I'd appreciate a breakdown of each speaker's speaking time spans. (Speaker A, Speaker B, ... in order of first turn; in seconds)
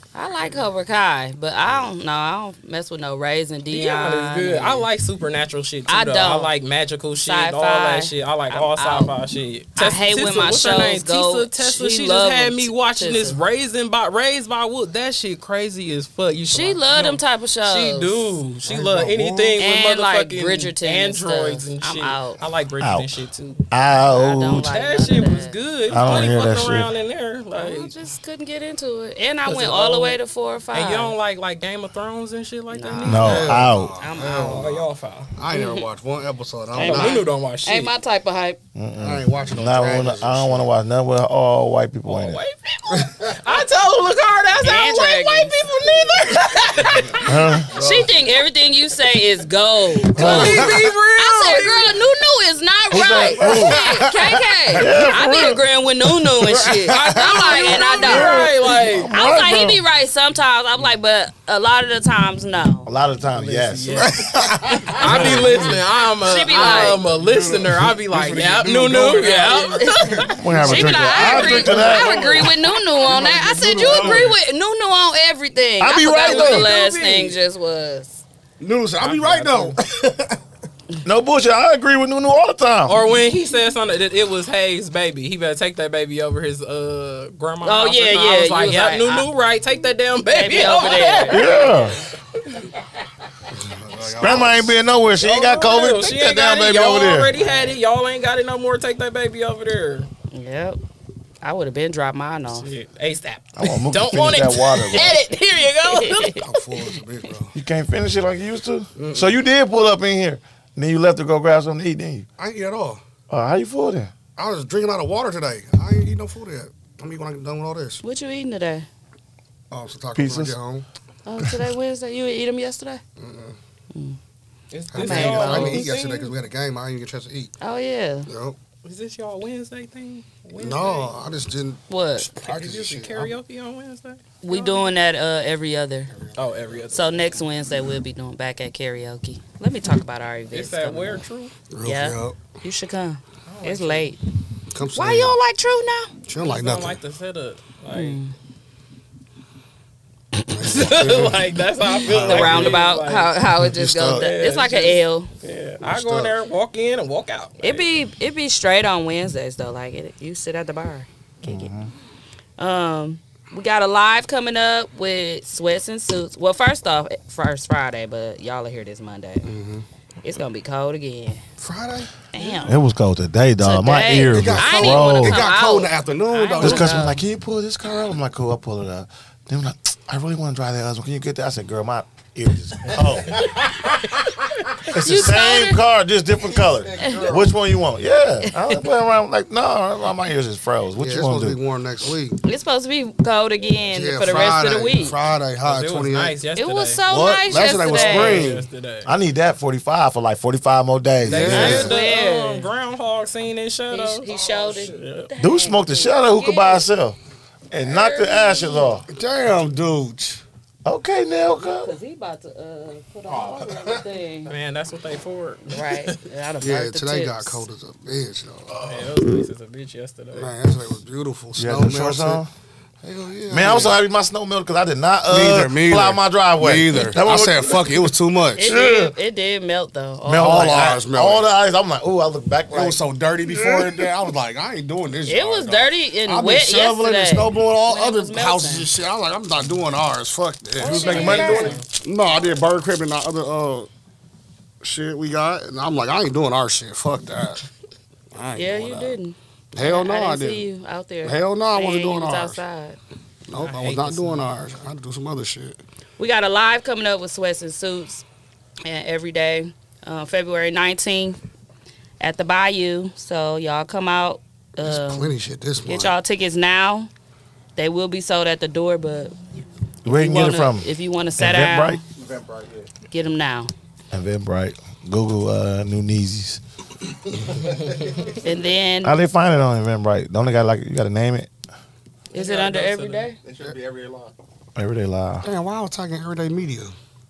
Speaker A: 0.1-4.8, 5.9-6.5, 7.2-9.1, 9.8-13.3, 16.5-18.4, 19.6-22.4, 24.1-26.5, 27.5-31.1, 32.7-34.7, 35.5-35.9, 36.7-38.6, 44.6-45.5, 46.7-62.9, 65.6-67.0, 69.7-78.2, 87.6-89.2, 90.3-91.8, 100.3-100.8, 101.4-102.7, 104.9-105.3, 105.8-106.5, 118.0-118.8, 121.2-123.0, 123.9-124.2, 125.0-125.8, 127.6-128.3, 131.9-132.3, 134.4-136.1, 136.9-141.2, 141.8-144.2, 144.9-146.1, 147.9-148.3, 151.9-155.3, 157.6-161.7, 162.6-169.5, 170.2-171.4, 172.3-172.8, 173.6-177.2, 184.8-185.8, 187.0-187.2, 192.4-195.2, 196.6-198.6, 201.5-202.7, 203.9-206.9, 207.8-209.0, 211.6-214.5, 215.7-217.6, 228.6-230.8, 235.3-238.9, 240.8-241.8, 248.6-253.0, 256.2-258.2, 258.8-261.4, 262.2-265.3, 265.8-267.1, 267.8-269.4, 270.1-272.0, 273.1-273.7, 278.4-279.1, 282.3-283.4
Speaker B: 3.7-23.6, 24.6-27.9, 29.4-30.2, 30.7-33.6, 34.3-35.3, 36.8-37.9, 42.0-47.2, 50.1-52.0, 56.6-59.1, 63.3-64.3, 64.8-70.4, 71.0-72.5, 73.8-74.3, 76.0-77.4, 79.0-79.8, 82.9-92.0, 95.2-100.1, 102.5-106.5, 124.7-126.3, 128.8-131.1, 132.4-134.9, 136.3-137.1, 140.5-141.5, 143.5-144.1, 146.3-148.2, 150.6-153.4, 154.1-157.9, 195.6-197.0, 197.8-199.1, 201.2-204.3, 204.8-205.3, 214.5-216.1, 218.8-220.5, 240.9-241.8, 253.6-254.5, 282.3-283.3
Speaker C: 18.6-19.6, 33.1-37.2, 39.0-40.7, 47.7-48.1, 50.1-50.7, 53.4-55.1, 56.2-58.9, 63.9-65.8, 66.5-74.3, 78.6-80.4, 93.5-94.8, 97.4-97.7, 106.4-107.5, 109.0-109.3, 112.4-113.0, 114.3-118.0, 119.7-120.8, 123.2-123.6, 124.9-127.5, 128.3-128.6, 130.6-133.3, 136.1-136.8, 141.7-142.4, 144.7-145.3, 146.2-147.0, 150.5-151.4, 152.0-152.8, 153.6-154.2, 155.8-156.3, 169.4-169.8, 171.6-172.1, 174.1-177.1, 191.0-192.4, 193.9-196.3, 197.1-198.7, 201.2-201.9, 209.1-210.4, 216.6-218.8, 220.3-222.4, 223.0-223.9, 225.3-228.7, 230.3-231.5, 232.7-243.9, 244.8-247.6, 248.3-249.2, 249.7-250.7, 251.2-252.6, 253.5-255.8, 264.8-266.1, 285.4-286.9
Speaker D: 22.8-24.7, 25.9-26.9, 33.0-33.9, 38.7-42.4, 47.2-47.7, 50.2-50.6, 52.9-54.0, 54.7-55.6, 57.9-59.8, 62.9-64.3, 65.0-65.6, 70.4-72.3, 75.8-76.7, 81.0-83.0, 91.3-92.0, 94.2-97.3, 103.5-105.1, 107.5-112.2, 113.3-114.1, 120.1-120.6, 161.4-161.9, 172.6-175.4, 176.6-183.5, 184.9-191.6, 199.0-201.9, 205.4-207.2, 207.7-209.1, 210.8-211.9, 221.6-222.5, 223.5-229.1, 230.2-234.1, 240.8-241.8, 270.0-272.0, 274.1-276.6, 279.0-281.5, 284.8-285.5
Speaker E: 183.3-183.8, 186.7-187.5, 204.3-204.7, 213.3-214.1, 272.1-272.9, 277.5-278.3, 283.4-284.3